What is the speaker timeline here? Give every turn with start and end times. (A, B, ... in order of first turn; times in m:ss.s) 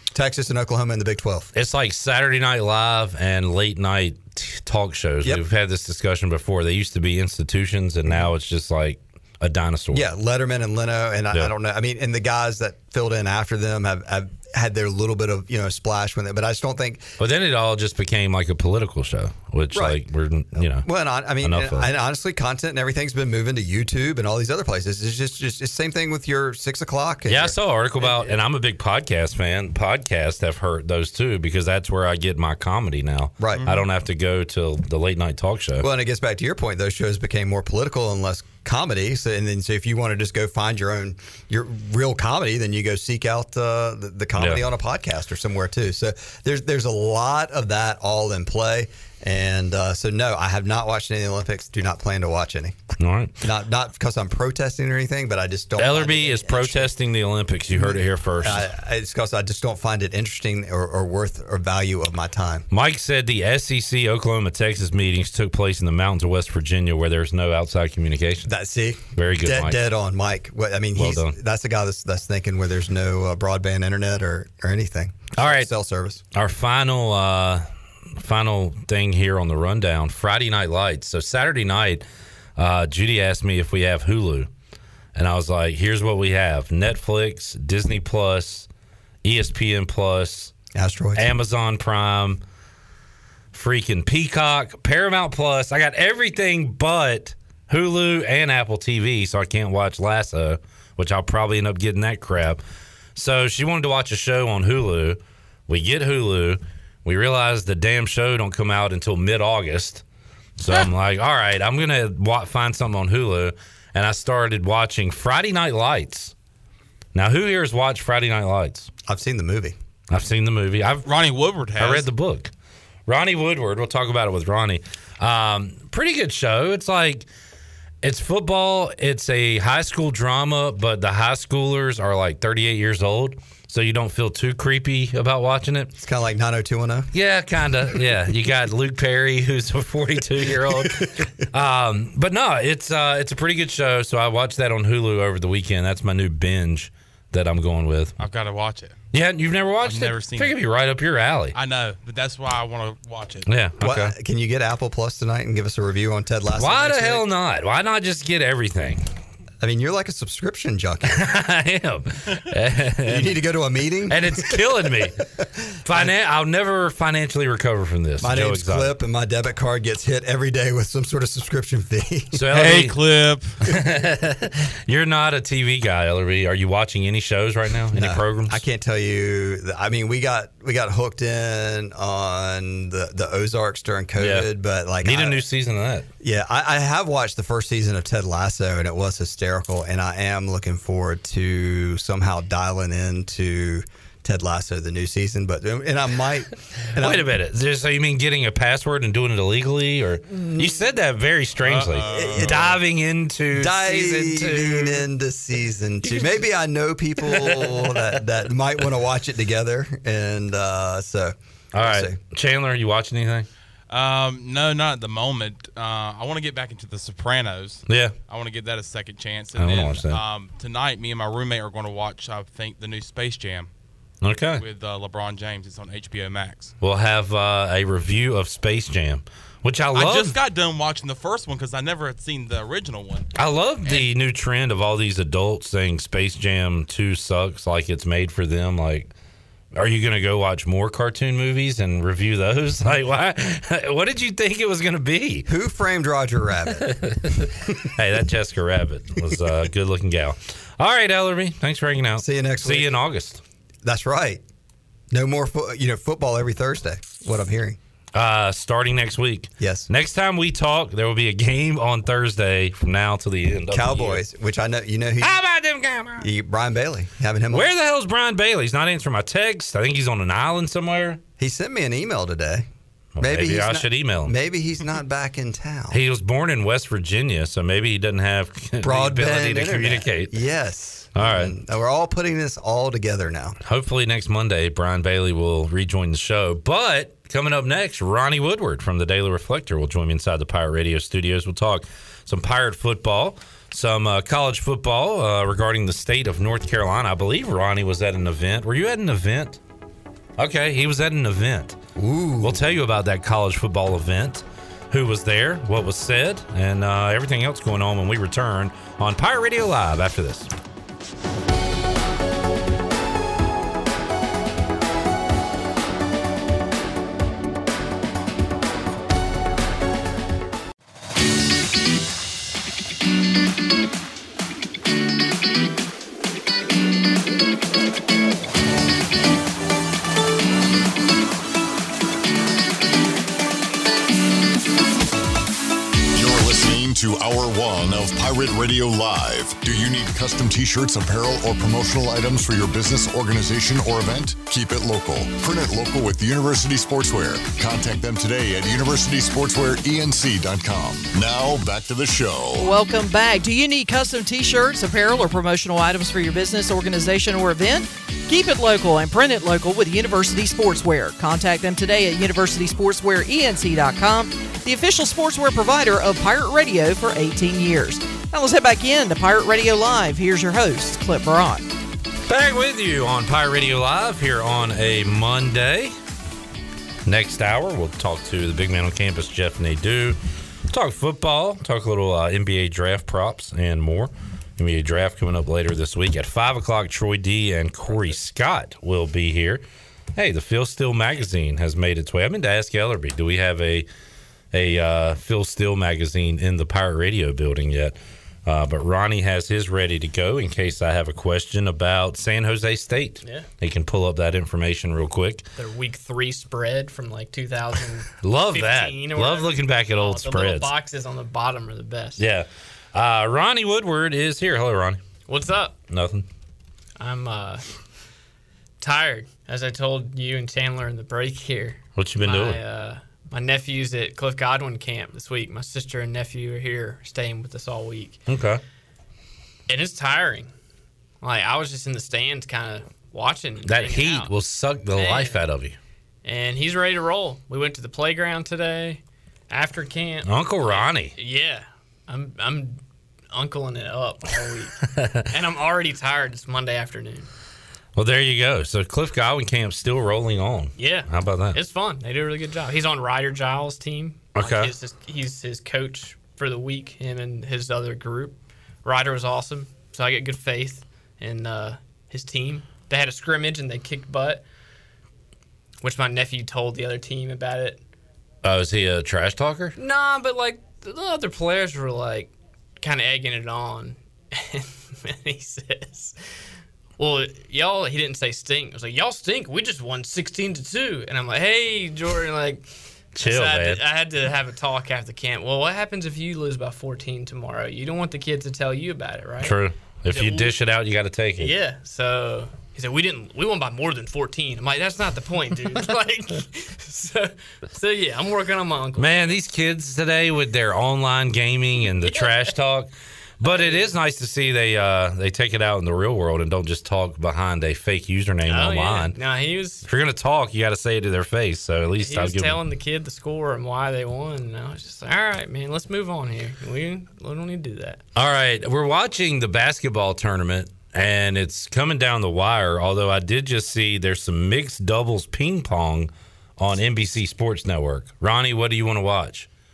0:00.1-0:01.5 A
0:01.5-0:10.1 B
0:09.9-0:17.2 A
0:17.2-0:20.8 B
0:19.7-0:20.0 A
0:20.5-0:27.6 A
0:21.4-0:21.9 B
0:27.3-0:35.9 B
0:33.4-0:33.7 A
0:33.5-0:33.8 C
0:35.8-0:52.8 A
0:44.4-0:44.6 B
0:53.0-0:53.4 B
0:53.4-0:56.9 A
0:55.8-0:58.7 B
0:57.7-1:02.6 A
1:02.7-1:08.5 B
1:08.4-1:16.2 A
1:09.1-1:09.8 B
1:11.0-1:11.3 B
1:15.4-1:15.7 B
1:16.3-1:22.0 B
1:22.6-1:24.5 B
1:25.1-1:28.7 B
1:29.2-1:30.5 B
1:30.7-1:31.3 A
1:31.2-1:32.4 B
1:33.5-1:42.6 B
1:43.2-1:50.0 B
1:50.6-1:56.3 B
1:57.1-1:58.9 B
1:59.1-1:59.8 A
2:00.1-2:01.1 B
2:01.0-2:02.1 C
2:01.7-2:02.5 B
2:03.1-2:07.3 B
2:08.0-2:15.9 B
2:16.0-2:17.1 A
2:17.1-2:28.2 B
2:20.7-2:21.3 A
2:28.2-2:29.0 C
2:29.1-2:31.5 B
2:29.8-2:30.6 C
2:31.5-2:33.5 C
2:33.4-2:34.1 B
2:33.8-2:37.2 A
2:36.6-2:39.1 B
2:39.6-2:41.2 A
2:41.1-2:43.3 B
2:43.0-2:46.1 A
2:44.1-2:45.2 B
2:45.8-2:48.9 B
2:48.2-2:52.4 A
2:52.3-2:53.0 B
2:52.5-2:53.6 C
2:53.6-2:58.6 B
2:57.9-3:05.4 A
3:04.2-3:04.5 B
3:05.0-3:06.1 B
3:06.2-3:17.3 A
3:17.0-3:25.1 B
3:20.3-3:20.8 A
3:21.6-3:22.6 C
3:22.1-3:22.8 A
3:23.5-3:32.2 A
3:26.0-3:26.3 B
3:27.2-3:28.1 B
3:31.7-3:33.5 B
3:33.9-3:43.7 C
3:37.9-3:38.1 B
3:39.6-3:40.2 B
3:44.2-3:44.6 B
3:44.6-3:46.7 C
3:46.8-3:50.4 B
3:49.9-3:53.3 C
3:53.3-3:59.1 B
3:59.7-4:05.4 B
4:05.4-4:06.9 A
4:06.8-4:13.4 B
4:12.2-4:12.9 A
4:13.8-4:14.4 A
4:15.1-4:17.8 A
4:18.1-4:24.2 B
4:19.6-4:19.9 A
4:23.7-4:25.4 A
4:25.2-4:26.3 B
4:26.2-4:27.7 A
4:27.5-4:31.2 B
4:31.4-4:32.7 A
4:33.2-4:34.3 B
4:33.2-4:36.0 A
4:35.9-4:40.4 B
4:38.8-4:43.6 A
4:41.1-4:41.5 B
4:43.6-4:59.6 B
5:00.4-5:01.8 B
5:02.0-5:02.6 A
5:02.4-5:10.5 B
5:36.1-5:52.7 D
5:52.6-6:11.6 E
6:12.2-6:15.9 B
6:17.0-6:29.6 B
6:30.2-6:33.9 B
6:34.5-6:45.5 B
6:43.2-6:43.5 F
6:45.6-6:52.2 F
6:48.2-6:50.7 B
6:52.2-6:55.0 B
6:55.3-6:55.8 F
6:55.9-6:56.2 B
6:57.0-6:57.6 F
6:58.8-7:08.2 F
7:02.0-7:02.6 B
7:08.3-7:08.6 B
7:09.7-7:10.5 F
7:11.2-7:14.3 F
7:13.6-7:15.8 B
7:14.9-7:15.4 F
7:16.2-7:27.3 F
7:20.2-7:21.1 B
7:24.9-7:25.2 B
7:27.9-7:31.6 B
7:30.8-7:44.4 F
7:34.3-7:34.7 B
7:45.8-7:47.8 F
7:48.4-7:49.7 B
7:49.8-7:56.2 F
7:57.0-8:10.5 F
8:03.1-8:03.8 B
8:09.4-8:11.5 B
8:11.4-8:19.2 F
8:19.0-8:29.2 B
8:21.8-8:22.6 F
8:23.4-8:23.9 F
8:28.4-8:29.8 F
8:29.8-8:32.6 B
8:32.0-8:38.0 F
8:38.2-8:49.5 B